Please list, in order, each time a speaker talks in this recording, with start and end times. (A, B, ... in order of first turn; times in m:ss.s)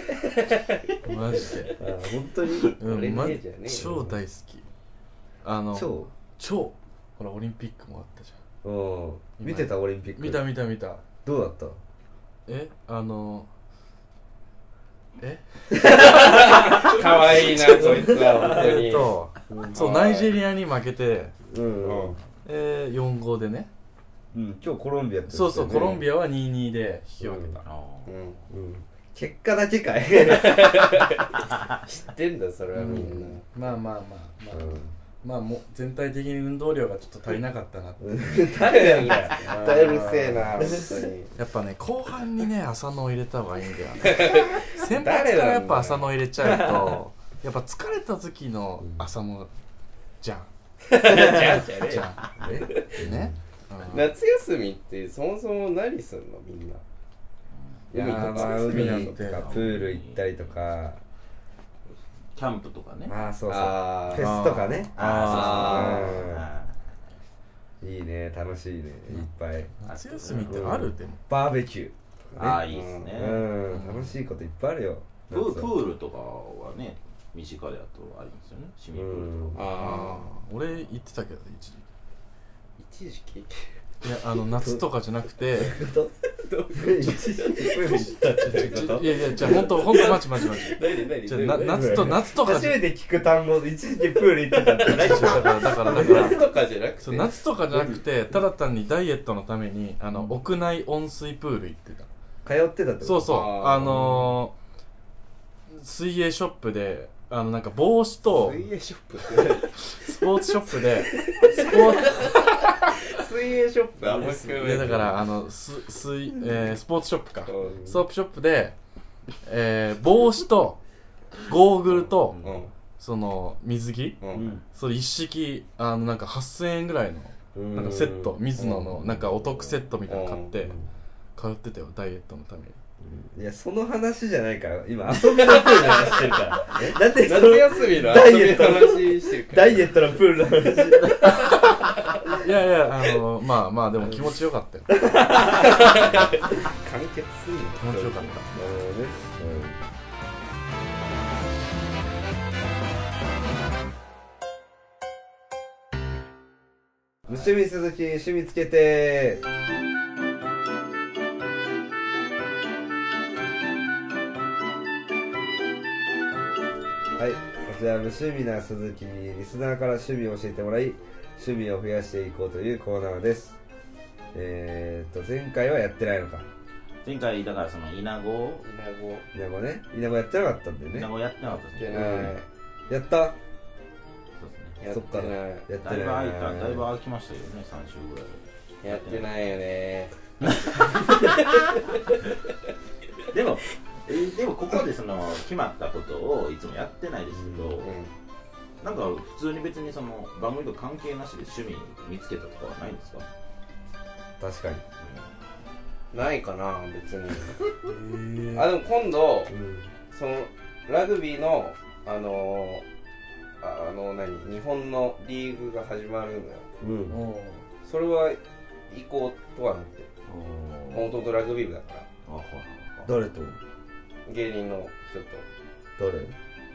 0:00.3-0:00.8 A
0:01.0-0:01.8 B
0:01.8-0:02.8 C
0:02.7-0:04.0 A
0:02.8-0:04.7 B
0:03.8-0:04.1 C
0:05.4-0:08.4 B
0:05.7-0:06.1 C
0:08.6-0:10.5 C
0:09.4-0:11.0 B
0:11.2-0:11.8 C
0:12.5-0:13.5 B
0:15.2-0:16.2 B
0:15.8-0:19.1 A
0:17.4-0:21.3 B
0:17.8-0:18.4 C
0:19.5-0:19.8 C
0:19.7-0:20.3 A
0:21.5-0:22.2 C
0:21.8-0:22.2 A
0:22.4-0:23.7 B
0:24.3-0:26.0 C
0:25.3-0:27.6 B
0:27.2-0:27.6 C
0:27.6-0:28.1 D
0:28.0-0:28.4 A
0:28.5-0:31.0 C
0:30.1-0:33.4 A
0:32.8-0:33.3 C
0:32.8-0:38.2 B
0:34.5-0:34.9 C
0:38.0-0:40.0 C
0:38.5-0:41.3 A
0:39.4-0:40.4 B
0:40.6-0:40.9 C
0:41.4-0:49.5 B
0:44.0-0:46.7 A
0:50.2-0:50.5 B
0:50.9-0:53.0 A
0:51.1-0:52.2 B
0:52.4-0:53.4 C
0:52.8-0:54.1 B
0:53.9-0:56.8 A
0:57.5-0:57.8 D
0:57.9-0:59.1 A
0:57.9-1:01.0 C
0:58.0-0:59.5 B
0:59.2-1:00.6 D
1:02.3-1:03.2 D
1:03.1-1:06.4 C
1:03.5-1:04.4 A
1:04.1-1:05.8 B
1:04.9-1:07.1 D
1:05.2-1:06.2 A
1:07.8-1:09.7 C
1:09.8-1:11.2 B
1:09.8-1:10.8 D
1:10.4-1:12.6 C
1:12.3-1:13.1 A
1:12.4-1:13.5 D
1:13.1-1:15.7 C
1:13.7-1:14.2 B
1:15.3-1:19.8 D
1:18.9-1:19.6 C
1:19.5-1:20.3 A
1:19.8-1:21.8 B
1:22.8-1:23.6 A
1:24.0-1:25.8 B
1:25.5-1:26.1 C
1:26.4-1:32.2 A
1:26.7-1:29.6 C
1:28.4-1:32.8 B
1:31.6-1:36.4 C
1:34.5-1:37.4 A
1:34.8-1:36.4 B
1:37.0-1:42.1 B
1:42.4-1:44.2 C
1:43.0-1:44.5 B
1:43.2-1:44.0 A
1:45.7-1:48.6 B
1:48.3-1:50.0 A
1:49.8-1:52.9 B
1:51.1-1:55.2 A
1:54.1-1:58.8 B
1:57.5-1:57.9 A
1:59.4-2:00.8 B
2:01.4-2:02.4 B
2:02.4-2:02.7 A
2:03.0-2:04.2 B
2:04.2-2:04.6 A
2:04.3-2:04.6 C
2:04.7-2:10.8 B
2:07.5-2:09.3 C
2:10.1-2:10.6 A
2:11.4-2:12.8 B
2:13.0-2:21.6 C
2:15.3-2:19.9 A
2:22.3-2:24.9 B
2:25.0-2:25.4 C
2:25.2-2:28.7 A
2:27.8-2:28.5 B
2:28.6-2:29.8 C
2:37.3-2:39.4 C
2:47.2-2:53.6 C
2:54.3-2:56.5 C
2:57.0-2:58.6 D
2:58.6-2:59.2 A
2:59.3-3:01.1 C
3:00.9-3:02.4 D
3:01.8-3:02.4 A
3:01.9-3:02.4 C
3:02.9-3:03.4 C
3:04.4-3:04.8 D
3:04.8-3:05.6 A
3:04.9-3:06.8 C
3:05.8-3:09.3 D
3:08.8-3:12.1 A
3:13.3-3:17.9 D
3:17.4-3:17.8 C
3:17.8-3:18.1 A
3:18.8-3:23.3 D
3:24.4-3:24.8 C
3:25.0-3:25.3 D
3:26.1-3:27.7 A
3:27.8-3:28.7 B
3:28.5-3:29.5 A
3:29.5-3:29.9 C
3:30.1-3:32.8 A
3:33.6-3:36.6 A
3:36.8-3:37.2 C
3:37.1-3:37.6 B
3:37.8-3:38.4 A
3:38.9-3:40.1 A
3:40.3-3:41.1 D
3:40.9-3:42.0 A
3:42.2-3:43.1 D
3:43.0-3:43.6 C
3:44.2-3:45.4 A
3:46.0-3:46.3 C